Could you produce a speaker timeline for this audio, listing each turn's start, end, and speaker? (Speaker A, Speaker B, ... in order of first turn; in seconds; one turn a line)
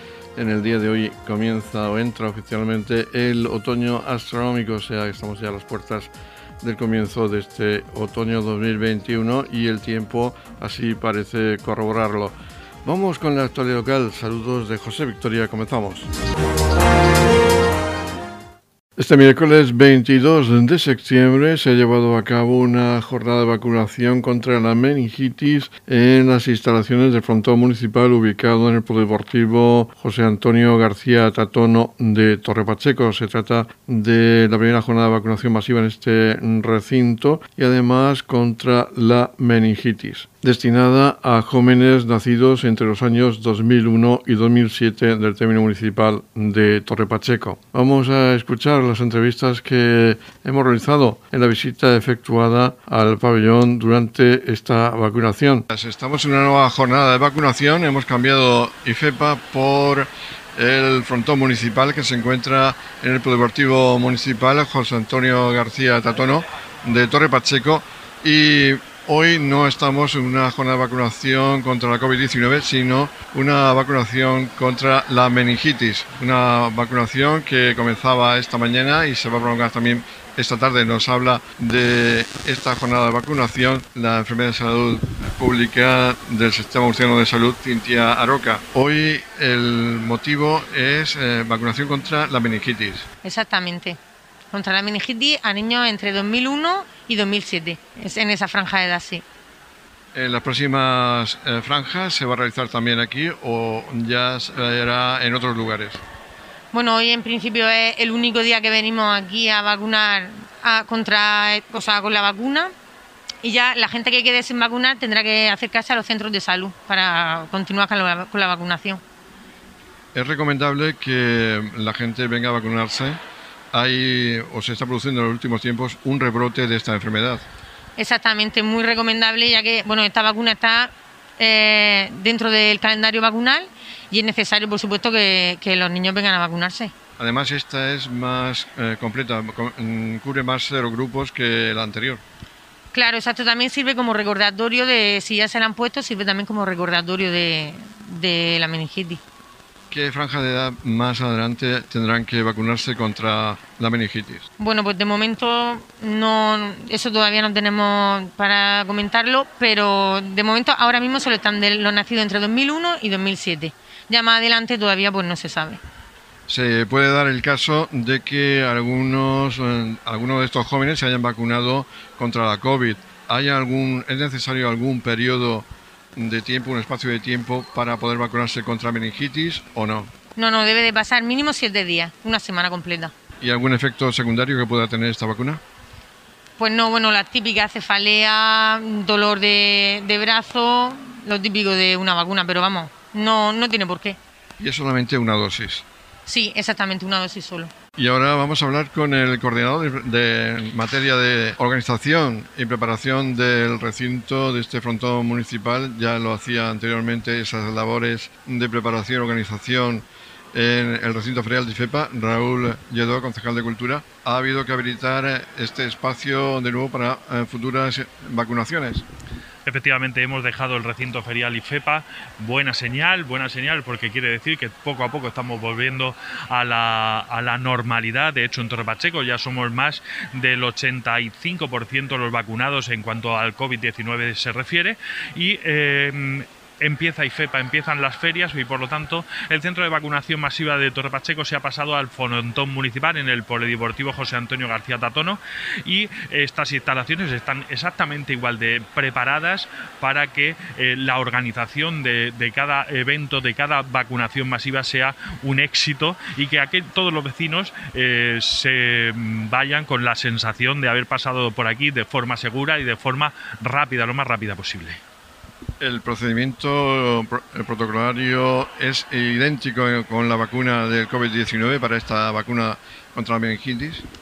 Speaker A: 0.3-16.1
Speaker A: 19.0-93.1
Speaker B: 93.2-94.0
Speaker B: 94.5-99.2
Speaker A: 100.1-106.0
Speaker B: 106.7-112.7
Speaker B: 113.4-119.0
Speaker A: 120.1-123.2
Speaker A: 123.7-127.5
Speaker B: 128.0-136.9
Speaker A: 137.2-142.2
Speaker B: 142.9-149.2
Speaker A: 149.9-154.5
Speaker B: 154.6-165.8
Speaker A: 166.5-180.1
Speaker B: 180.3-183.1
Speaker A: 183.4-185.6
Speaker B: 186.6-194.2
Speaker A: 194.6-195.8
Speaker B: 196.2-197.7
Speaker A: 197.9-219.0
Speaker C: 219.7-265.0
Speaker A: 265.8-274.1